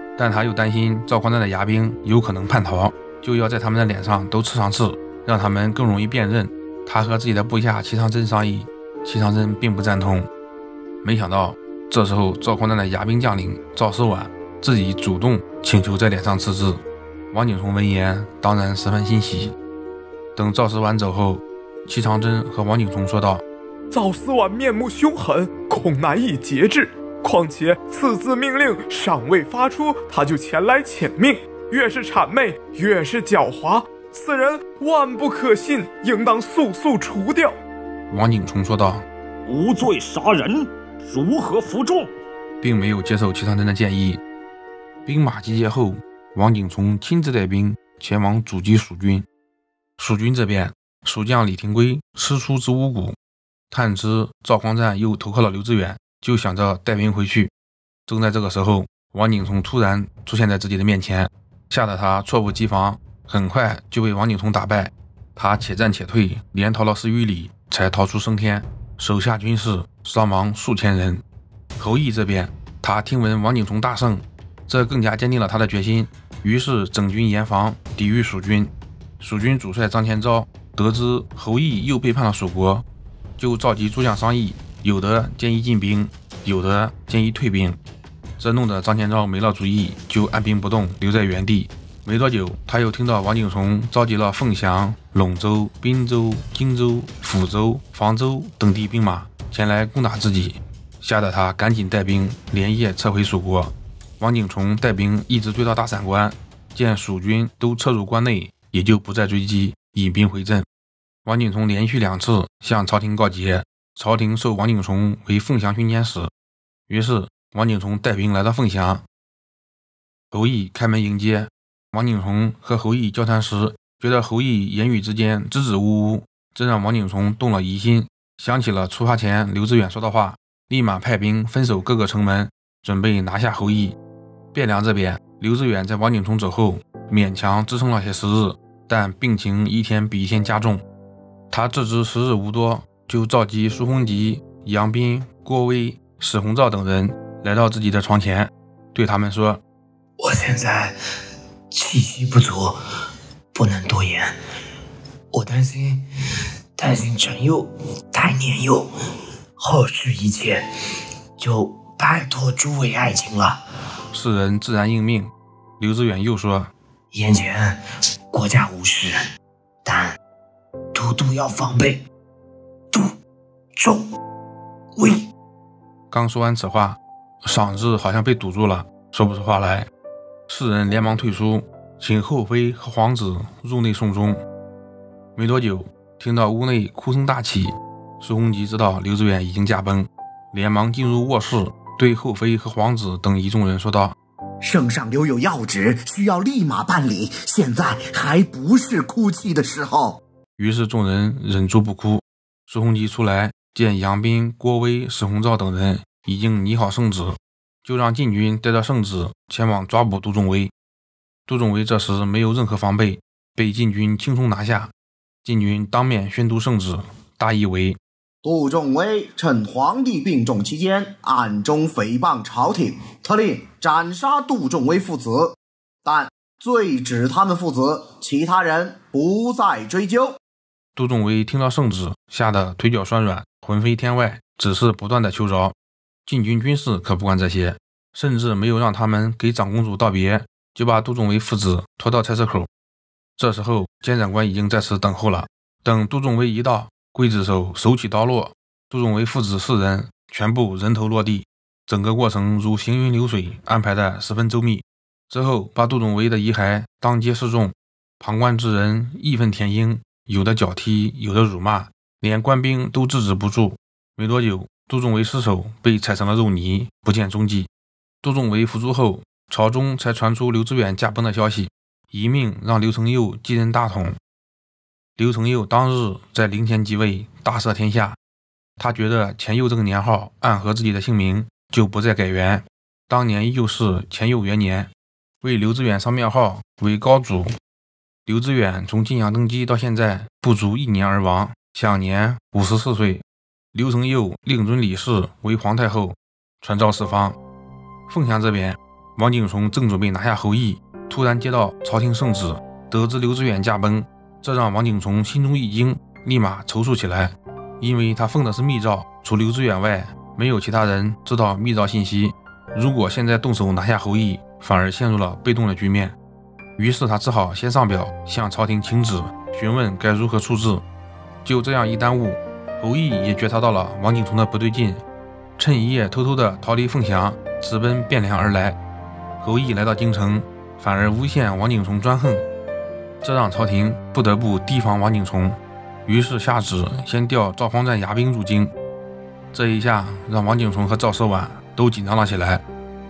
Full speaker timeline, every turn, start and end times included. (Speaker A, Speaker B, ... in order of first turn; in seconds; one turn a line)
Speaker A: 0.2-10.3
Speaker A: 11.0-16.8
Speaker A: 17.3-19.5
Speaker A: 20.4-23.4
Speaker B: 23.9-37.5
Speaker A: 38.1-39.0
Speaker C: 39.5-42.1
Speaker A: 42.6-44.2
Speaker A: 45.0-49.3
Speaker A: 50.0-53.1
Speaker A: 53.7-57.5
Speaker A: 58.1-71.2
Speaker A: 71.8-82.8
Speaker A: 83.4-87.8
Speaker A: 88.4-110.7
Speaker A: 111.2-116.3
Speaker A: 116.9-119.0
Speaker A: 120.3-134.0
Speaker A: 134.5-140.8
Speaker A: 141.5-149.6
Speaker D: 150.2-151.0
Speaker D: 151.7-152.8
Speaker D: 153.5-154.3
Speaker D: 155.3-156.0
Speaker D: 156.8-158.9
Speaker D: 159.6-160.6
Speaker D: 161.4-163.6
Speaker A: 164.1-166.7
Speaker D: 167.1-167.8
Speaker D: 168.3-169.2
Speaker D: 169.8-170.2
Speaker D: 170.9-172.0
Speaker D: 173.8-174.0
Speaker D: 174.9-175.2
Speaker A: 176.1-179.9
Speaker A: 180.5-184.4
Speaker A: 185.3-194.2
Speaker E: 194.6-200.2
Speaker A: 200.6-210.7
Speaker A: 211.5-214.9
Speaker A: 215.4-218.0
Speaker E: 218.4-230.3
Speaker A: 230.9-242.7
Speaker A: 243.4-267.7
Speaker A: 268.2-274.2
Speaker A: 275.2-278.2
Speaker A: 278.8-284.9
Speaker A: 285.4-287.5
Speaker A: 288.2-297.4
Speaker A: 298.1-316.2
Speaker A: 316.8-320.8
Speaker A: 321.4-325.0
Speaker A: 325.6-328.8
Speaker A: 329.4-332.4
Speaker A: 333.2-338.7
Speaker A: 339.5-342.6